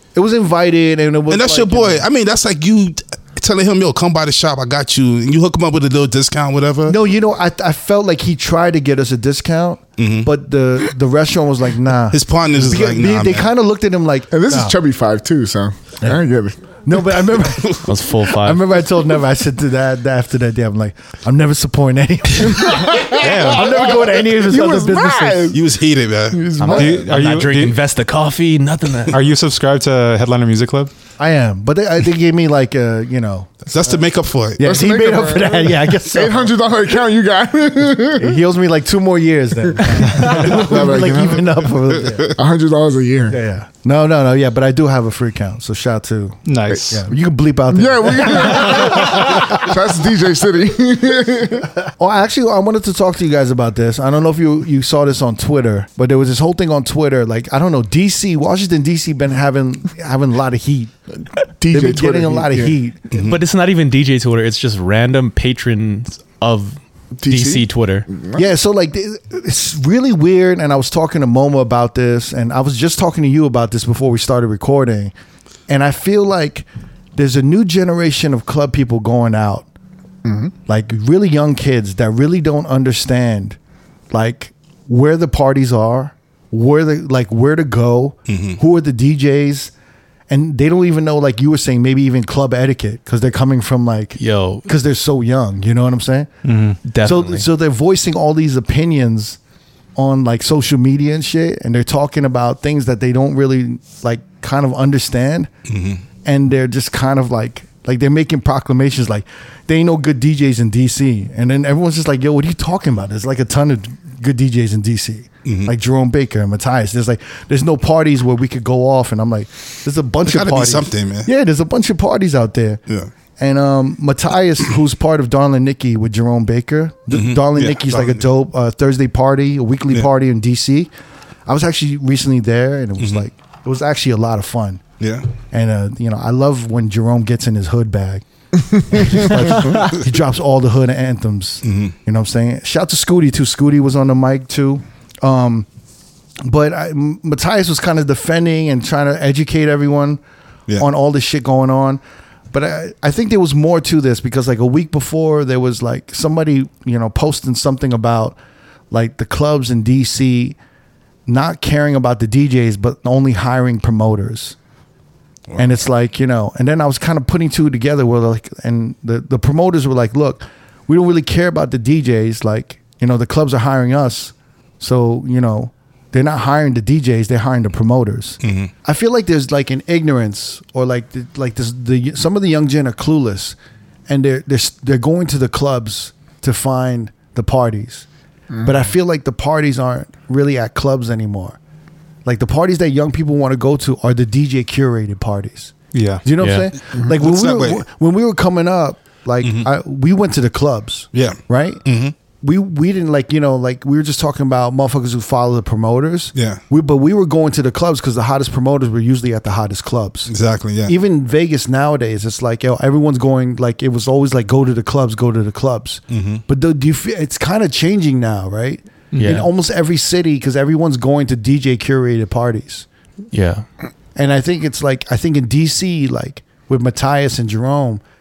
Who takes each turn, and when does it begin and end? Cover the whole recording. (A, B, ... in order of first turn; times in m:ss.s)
0:00.2-0:02.0 A
0:01.3-0:07.0 B
0:06.9-0:14.8 A
0:10.0-0:10.3 B
0:12.1-0:13.5 B
0:14.3-0:16.6 C
0:16.8-0:25.6 A
0:17.8-0:18.8 D
0:22.4-0:25.7 C
0:23.2-0:23.7 E
0:25.5-0:26.4 B
0:26.3-0:27.1 C
0:26.6-0:29.2 D
0:26.7-0:27.8 E
0:29.1-0:30.9 E
0:31.2-0:33.9 A
0:33.7-0:34.7 B
0:34.6-0:36.6 A
0:34.6-0:38.4 C
0:38.2-0:42.4 A
0:39.7-0:41.7 C
0:40.1-0:40.6 E
0:42.0-0:42.3 B
0:42.4-0:43.4 C
0:43.3-0:49.7 A
0:46.5-0:47.0 E
0:47.7-0:51.7 C
0:52.0-1:00.9 A
1:01.6-1:02.8 C
1:01.7-1:03.0 A
1:03.1-1:03.4 B
1:03.1-1:08.1 D
1:07.2-1:08.4 C
1:08.4-1:15.1 A
1:15.7-1:19.7 A
1:20.2-1:20.5 C
1:20.7-1:23.6 A
1:24.1-1:29.7 A
1:28.3-1:28.6 B
1:30.3-1:36.3 A
1:34.2-1:34.7 D
1:36.4-1:36.8 E
1:36.8-1:37.5 D
1:37.0-1:39.4 A
1:40.0-1:45.5 A
1:45.7-1:46.0 B
1:46.2-2:02.8 A
1:55.4-1:55.7 B
2:00.2-2:01.3 B
2:03.4-2:10.9 A
2:07.1-2:08.2 B
2:11.5-2:14.8 A
2:13.0-2:13.2 B
2:15.0-2:15.3 B
2:15.5-2:18.2 A
2:18.8-2:25.7 A
2:18.9-2:19.7 C
2:21.6-2:21.9 B
2:26.4-2:30.2 A
2:30.8-2:32.0 A
2:32.5-2:38.4 A
2:38.9-2:40.6 A
2:41.3-2:44.6 A
2:45.5-2:45.9 B
2:45.6-3:03.6 A
2:58.4-2:58.7 B
3:04.1-3:08.1 A
3:08.5-3:08.9 C
3:08.6-3:11.6 A
3:12.2-3:15.7 A
3:15.9-3:16.2 E
3:16.2-3:21.8 A
3:16.4-3:16.7 D
3:17.1-3:17.8 B
3:19.4-3:19.7 B
3:21.1-3:22.2 B
3:22.4-3:30.3 A
3:26.4-3:26.6 B
3:30.3-3:31.0 B
3:30.8-3:42.9 A
3:36.1-3:36.4 B
3:39.1-3:39.4 E
3:39.2-3:39.5 D
3:43.3-3:43.7 D
3:44.2-3:48.0 A